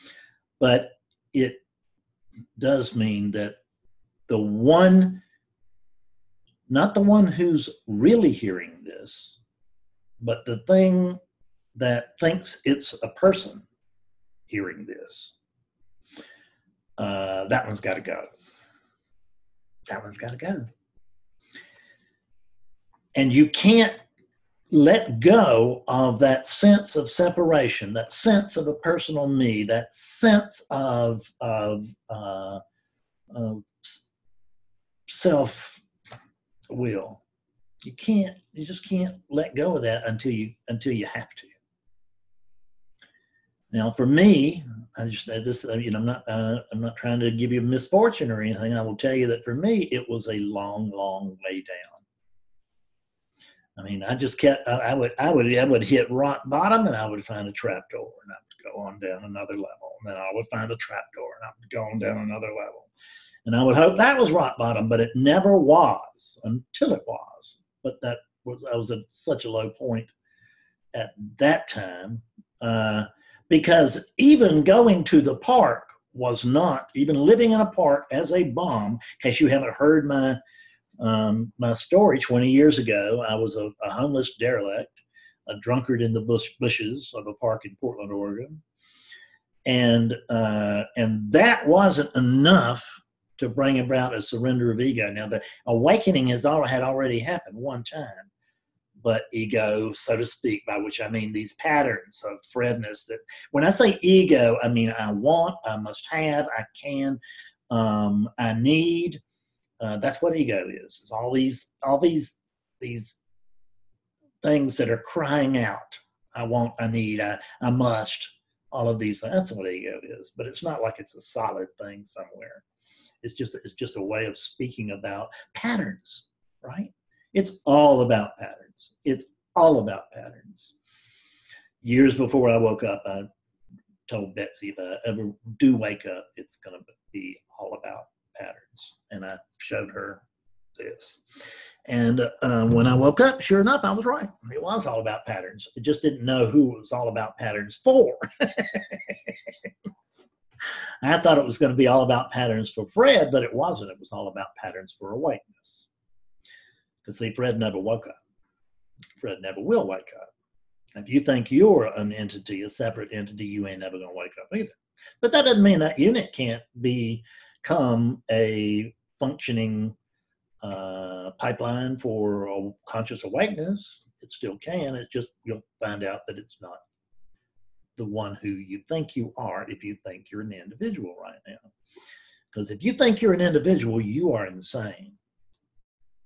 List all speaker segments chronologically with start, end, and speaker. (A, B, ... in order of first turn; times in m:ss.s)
0:00.6-0:01.6 A
0:02.6-0:03.6 A
0:04.3-0:05.2 A
0:06.7-0:09.4 A
0:10.2-0:11.2 A
0:11.8-0:13.6 A
0:14.5-0:15.4 A
0:17.0-0:18.3 A
0:19.9-0:20.7 A
0:23.2-0:24.0 A
0:24.7-0:32.6 A
0:33.3-0:34.0 A
0:35.1-0:35.8 A
0:36.7-0:37.2 A
0:37.8-0:41.6 A
0:43.7-0:52.0 A
0:53.8-1:02.9 A
1:03.4-1:10.1 A
1:10.9-1:20.4 A
1:21.0-1:25.0 A
1:25.5-1:28.6 A
1:29.7-1:38.3 A
1:39.0-1:49.2 A
1:49.8-1:53.2 A
1:54.4-2:02.6 A
2:03.2-2:10.7 A
2:11.8-2:13.3 A
2:14.1-2:20.2 A
2:20.8-2:21.2 A
2:21.9-2:29.5 A
2:31.0-2:35.9 A
2:37.0-2:38.2 A
2:39.2-2:40.3 A
2:41.0-2:50.0 A
2:50.6-2:56.8 A
2:58.0-3:01.7 A
3:02.5-3:05.2 A